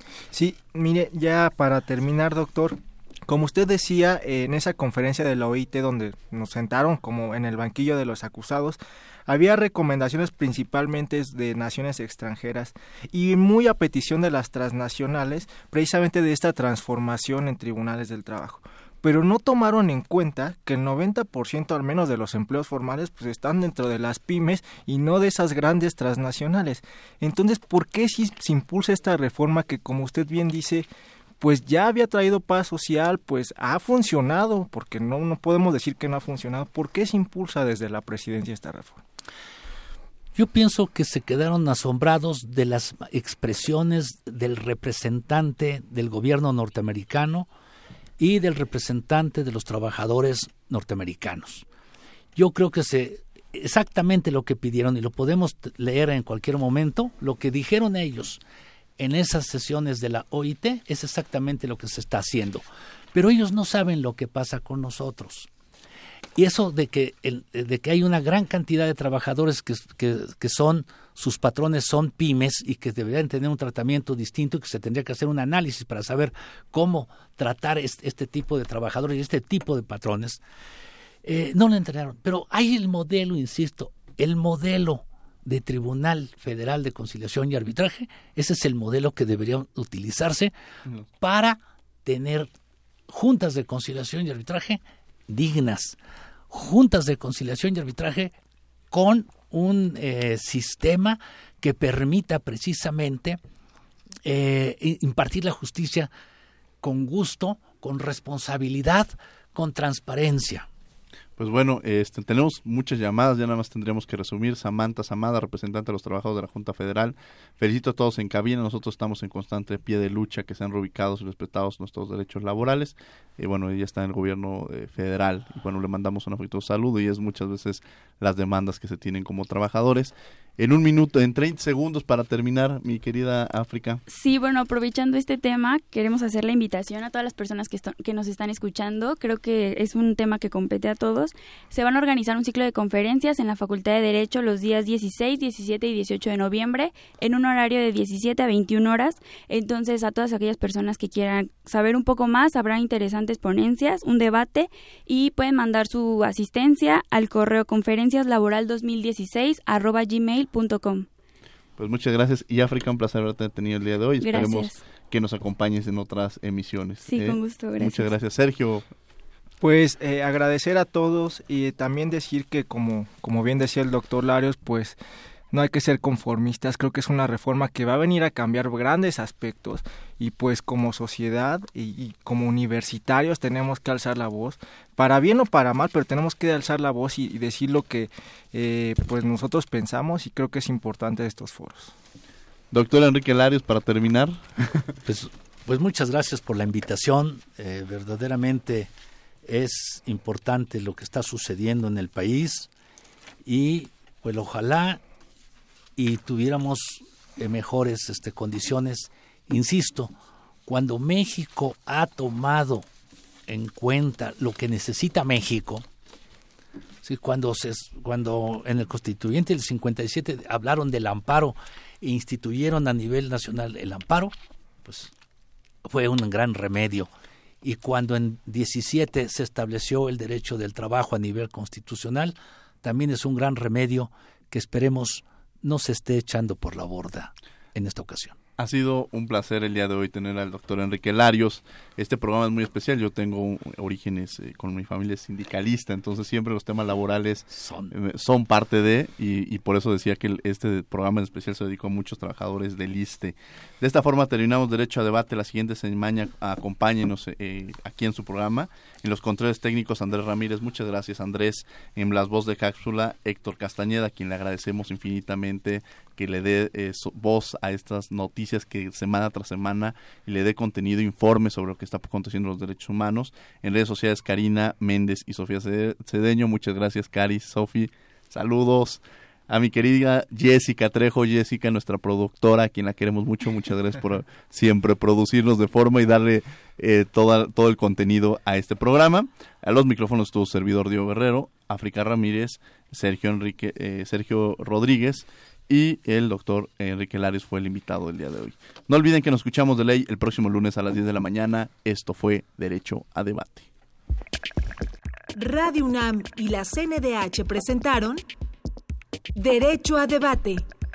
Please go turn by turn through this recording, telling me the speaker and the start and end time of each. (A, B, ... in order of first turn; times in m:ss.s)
0:00.3-0:30.9 A
0:31.4-0:39.0 A
0:40.3-0:47.5 B
0:48.2-0:51.6 B
0:52.3-0:58.4 B
0:59.0-1:05.5 B
1:06.4-1:20.4 B
1:21.2-1:30.5 B
1:31.2-1:32.5 B
1:33.1-1:36.0 B
1:36.5-1:38.4 B
1:38.9-1:43.4 B
1:44.2-1:46.1 B
1:46.8-1:50.7 B
1:51.4-2:14.0 C
2:14.1-2:41.1 D
2:41.8-2:48.9 C
2:44.2-2:44.8 D
2:47.0-2:48.1 D
2:49.6-2:55.0 A
2:55.5-3:11.9 A
3:12.7-3:14.8 C
3:15.0-3:18.9 B
3:19.4-3:22.7 B
3:23.4-3:25.0 B
3:26.0-3:30.1 B
3:30.6-3:32.9 B
3:33.5-3:35.8 B
3:37.0-3:45.1 B
3:45.8-3:47.1 B
3:47.6-3:58.4 B
3:58.6-5:03.7 C
4:07.5-4:07.9 B
5:05.3-5:08.2 E
5:09.3-5:10.7 E